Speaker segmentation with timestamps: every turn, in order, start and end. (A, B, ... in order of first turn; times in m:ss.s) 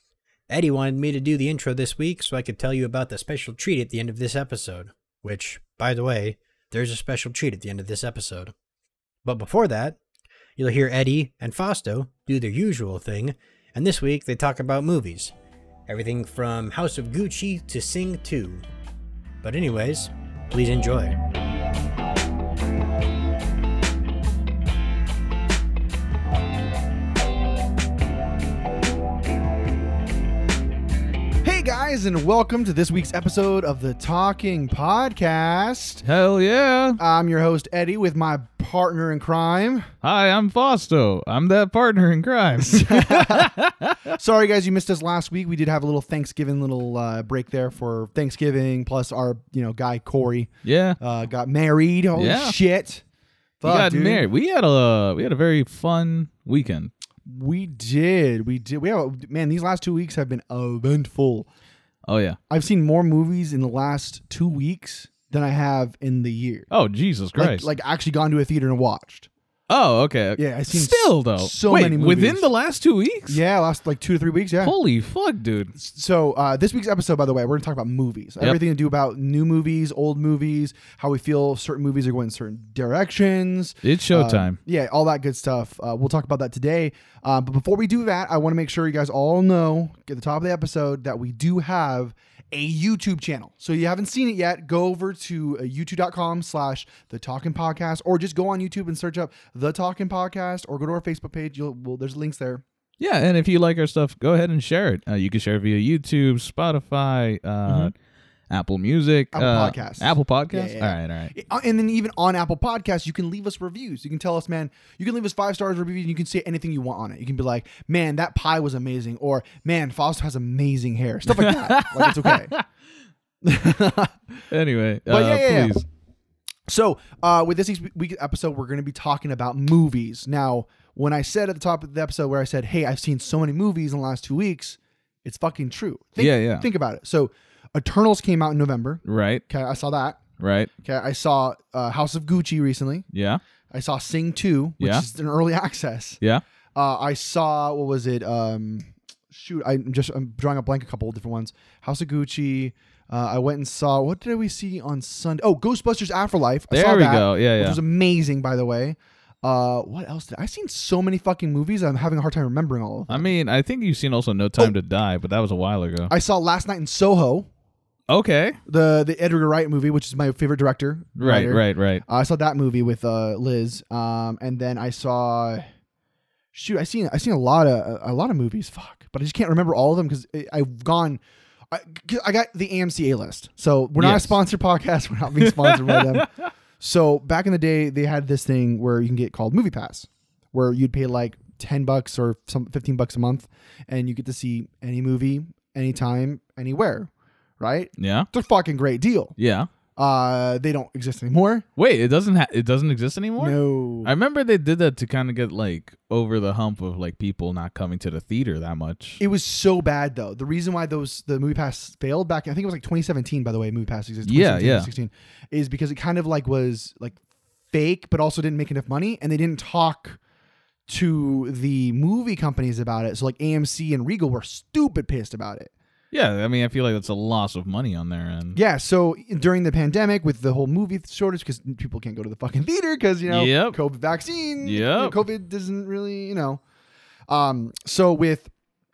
0:00.5-0:08.5 A
0:09.2-0:10.0 A
0:10.6-0:15.3 A
0:15.9-0:18.6 A
0:19.4-0:21.2 A
0:31.4-0:36.0 B
0:36.0-0:37.0 C
0:37.0-0:39.9 B
0:40.0-0:44.1 C
0:42.6-0:43.5 B
0:44.1-0:53.0 B
0:50.6-0:51.0 C
0:52.2-0:52.6 C
0:53.6-0:54.3 B
0:53.6-0:56.9 C
0:57.2-1:01.5 B
1:02.0-1:02.4 C
1:02.5-1:06.7 B
1:06.7-1:07.7 C
1:07.4-1:09.3 B
1:09.7-1:13.4 C
1:10.4-1:12.5 B
1:13.3-1:14.7 B
1:14.6-1:15.7 C
1:15.7-1:42.6 B
1:23.8-1:24.6 C
1:43.0-1:47.9 C
1:47.6-1:47.9 B
1:48.5-1:51.3 C
1:49.3-2:02.5 B
2:01.3-2:02.6 C
2:03.4-2:04.4 B
2:04.5-2:05.8 C
2:05.1-2:05.8 B
2:06.7-2:20.2 B
2:16.2-2:16.6 C
2:19.0-2:19.4 C
2:20.4-2:20.7 C
2:20.8-2:23.0 B
2:23.1-2:23.4 C
2:23.7-2:26.2 B
2:24.8-2:25.0 C
2:26.7-2:43.3 B
2:36.7-2:37.8 C
2:43.1-2:46.1 C
2:46.1-2:47.5 B
2:48.1-2:48.6 C
2:48.7-2:55.6 B
2:51.2-2:52.0 C
2:56.5-3:06.3 B
3:04.0-3:04.4 C
3:05.4-3:06.5 C
3:06.8-3:19.3 B
3:18.0-3:18.3 C
3:19.4-3:19.7 C
3:20.0-3:21.6 B
3:21.8-3:29.2 C
3:23.4-3:24.1 B
3:29.2-3:37.2 B
3:34.2-3:34.9 C
3:37.7-3:40.2 B
3:40.9-3:45.7 B
3:46.1-3:48.6 C
3:48.5-3:56.6 B
3:53.3-3:53.8 C
3:54.6-3:55.2 C
3:57.3-3:58.5 B